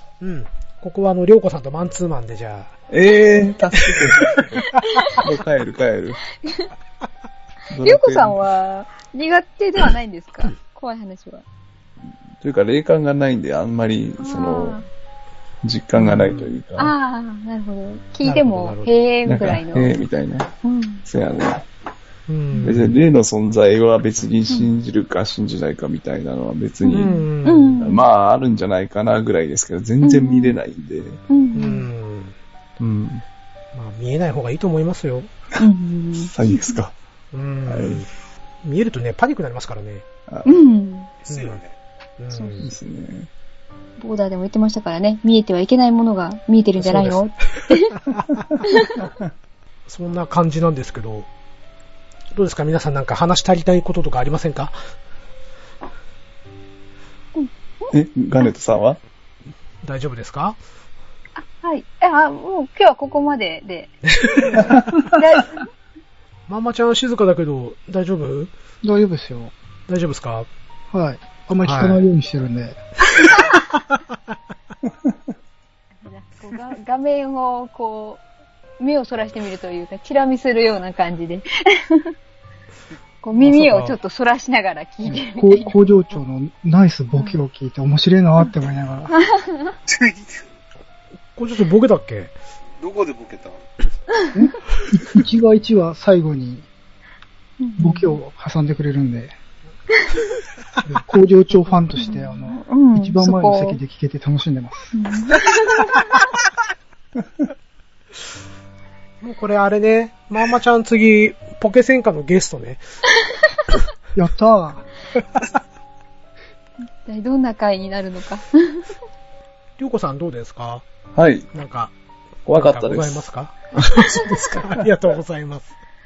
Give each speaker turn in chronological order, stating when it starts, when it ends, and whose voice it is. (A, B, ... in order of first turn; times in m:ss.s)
0:00.2-0:02.7 A
0:02.9-0:06.2 B
0:03.8-0:04.4 A
0:04.7-0:05.1 C
0:06.4-0:06.7 C
0:07.7-0:08.4 B
0:07.8-0:11.4 C
0:12.4-0:14.8 B
0:14.2-0:14.9 C
0:15.6-0:16.9 B
0:16.0-0:16.6 A
0:16.8-0:19.9 C
0:18.2-0:18.9 A
0:19.2-0:20.5 B
0:20.6-0:21.0 C
0:21.0-0:21.6 B
0:22.3-0:23.0 A
0:22.6-0:27.2 B
0:26.8-0:28.0 C
0:26.9-0:27.8 A
0:27.8-0:31.2 B
0:30.0-0:30.6 C
0:31.3-0:31.9 C
0:31.5-0:32.3 A
0:32.8-0:33.2 B
0:33.7-0:35.3 A
0:35.6-0:36.3 C
0:36.2-0:36.9 B
0:37.3-0:38.1 A
0:37.6-0:38.0 B
0:38.6-0:40.0 A
0:40.3-0:40.6 B
0:40.4-0:41.1 C
0:41.2-0:41.7 D
0:41.3-0:41.6 A
0:42.2-0:42.7 A
0:42.3-0:42.7 C
0:42.6-0:43.3 B
0:44.0-0:47.9 C
0:46.8-0:47.2 B
0:48.6-0:49.0 C
0:49.9-0:51.3 A
0:52.3-0:54.7 A
0:57.4-0:57.9 C
0:57.9-0:59.0 B
0:59.8-1:00.6 A
1:01.4-1:05.6 C
1:04.1-1:05.0 A
1:04.7-1:05.0 B
1:06.5-1:08.5 A
1:08.8-1:09.5 E
1:09.9-1:10.5 A
1:10.9-1:12.8 E
1:11.6-1:12.0 A
1:16.0-1:18.2 C
1:18.8-1:22.1 C
1:23.2-1:25.7 C
1:23.3-1:23.9 A
1:25.0-1:29.2 E
1:27.1-1:27.4 C
1:29.1-1:29.7 C
1:29.9-1:30.3 D
1:31.4-1:32.3 A
1:32.8-1:33.6 D
1:34.3-1:36.7 E
1:37.6-1:38.2 C
1:37.8-1:39.3 E
1:40.9-1:44.9 E
1:42.0-1:43.8 C
1:44.9-1:45.8 C
1:49.2-1:52.8 A
1:54.1-1:54.8 E
1:57.0-1:58.8 C
1:59.8-2:00.8 A
2:01.1-2:01.5 B
2:01.5-2:01.9 A
2:02.4-2:03.3 B
2:02.5-2:05.7 A
2:04.1-2:04.4 D